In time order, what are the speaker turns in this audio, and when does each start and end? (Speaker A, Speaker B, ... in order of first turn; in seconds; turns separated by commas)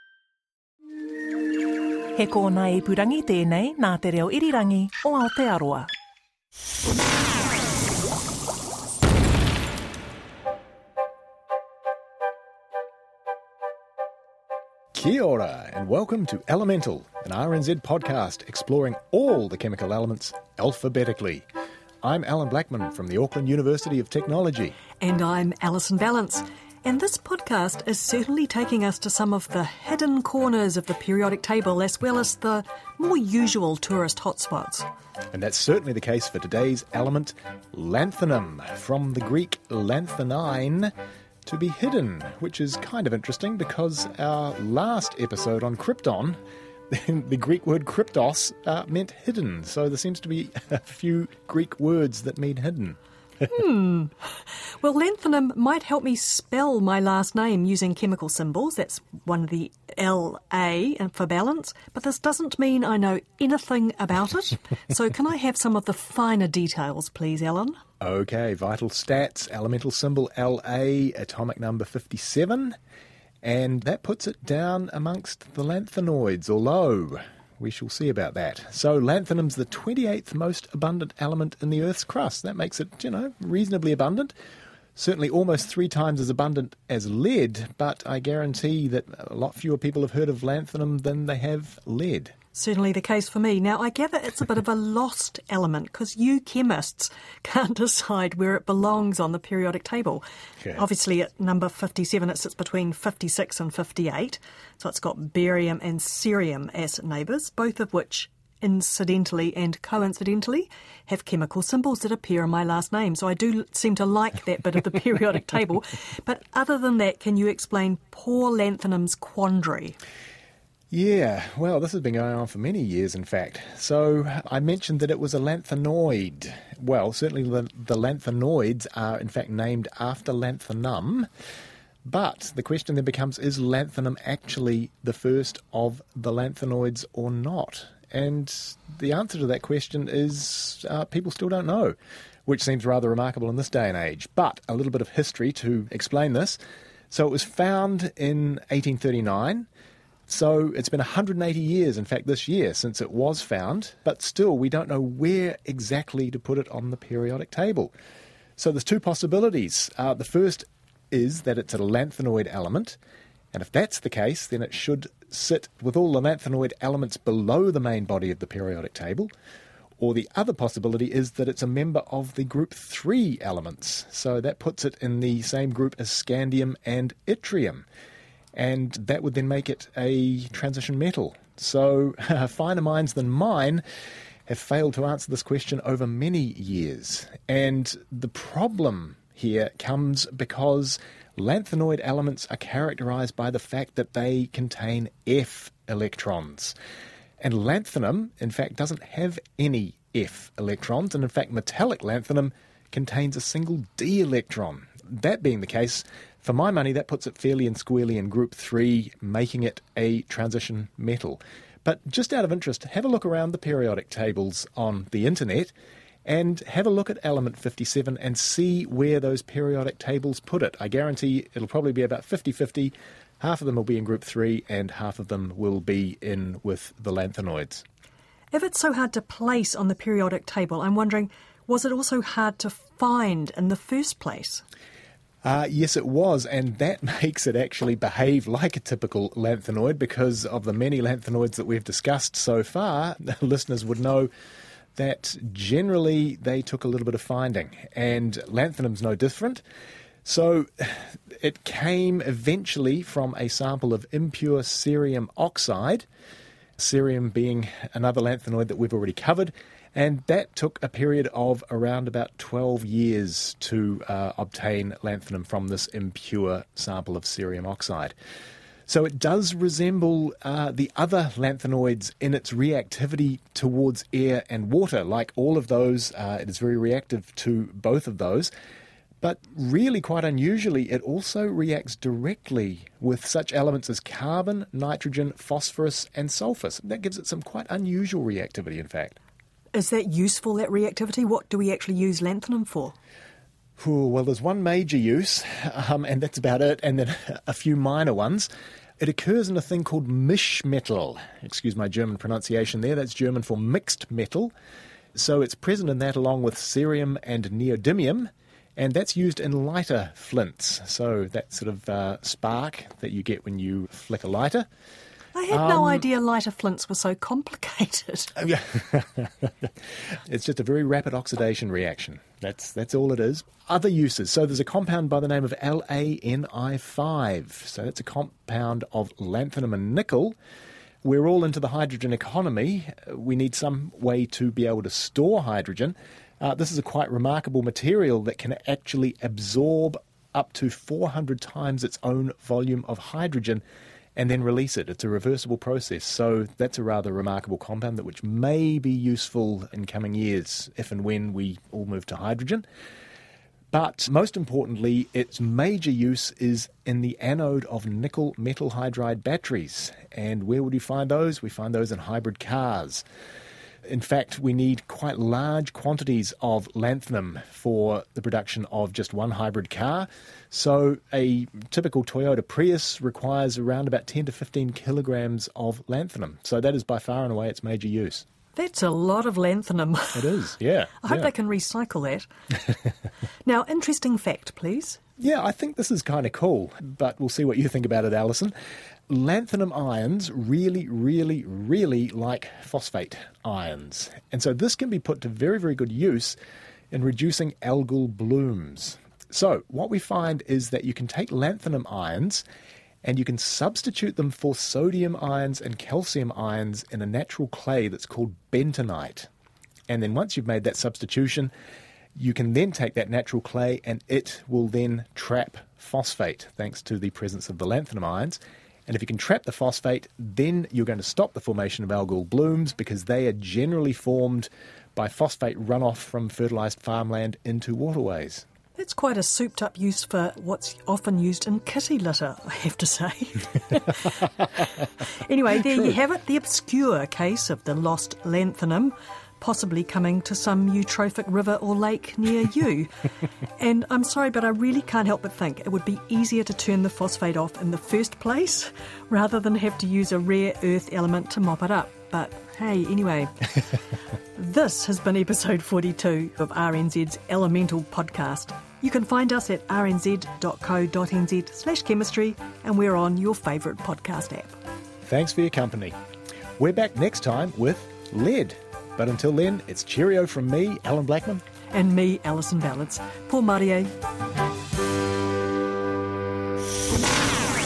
Speaker A: 2.1-5.9, Speaker B: 14.9-21.4, Speaker B: 22.0-24.8, Speaker C: 25.0-34.9, Speaker B: 35.3-40.9, Speaker B: 41.4-46.4, Speaker B: 46.9-53.0, Speaker C: 53.5-54.1, Speaker C: 54.8-67.8, Speaker B: 68.0-72.8, Speaker B: 73.4-84.3, Speaker B: 85.0-92.3, Speaker C: 92.5-120.0, Speaker B: 120.9-131.3, Speaker B: 132.0-141.9, Speaker B: 142.4-146.6, Speaker B: 147.1-149.7, Speaker B: 150.3-157.9, Speaker B: 158.6-163.0, Speaker B: 163.5-169.3, Speaker B: 170.0-177.8, Speaker B: 178.5-183.8, Speaker B: 184.5-196.7, Speaker B: 197.4-215.7, Speaker B: 216.2-227.8, Speaker C: 228.5-234.6, Speaker B: 235.4-244.3, Speaker B: 244.9-249.6, Speaker B: 250.2-256.0, Speaker B: 256.8-268.1, Speaker B: 268.9-278.5, Speaker B: 279.2-289.2, Speaker C: 289.7-292.9, Speaker B: 293.8-304.5, Speaker B: 305.1-314.6, Speaker C: 315.3-318.3, Speaker B: 315.5-316.0, Speaker B: 318.4-319.5, Speaker B: 320.2-330.3, Speaker B: 331.0-343.6, Speaker B: 344.1-352.6, Speaker B: 353.7-363.0, Speaker B: 363.9-378.2, Speaker C: 378.5-380.4, Speaker B: 380.1-381.3, Speaker C: 381.0-382.3, Speaker C: 383.4-385.0, Speaker B: 385.2-388.5, Speaker B: 389.1-396.4, Speaker B: 396.9-402.4, Speaker B: 403.0-409.3, Speaker B: 409.9-411.5, Speaker B: 412.1-428.4, Speaker C: 428.8-434.6, Speaker C: 435.2-442.9, Speaker C: 443.6-453.6, Speaker C: 454.3-464.5, Speaker B: 465.0-465.9, Speaker B: 466.6-471.4, Speaker C: 471.7-473.9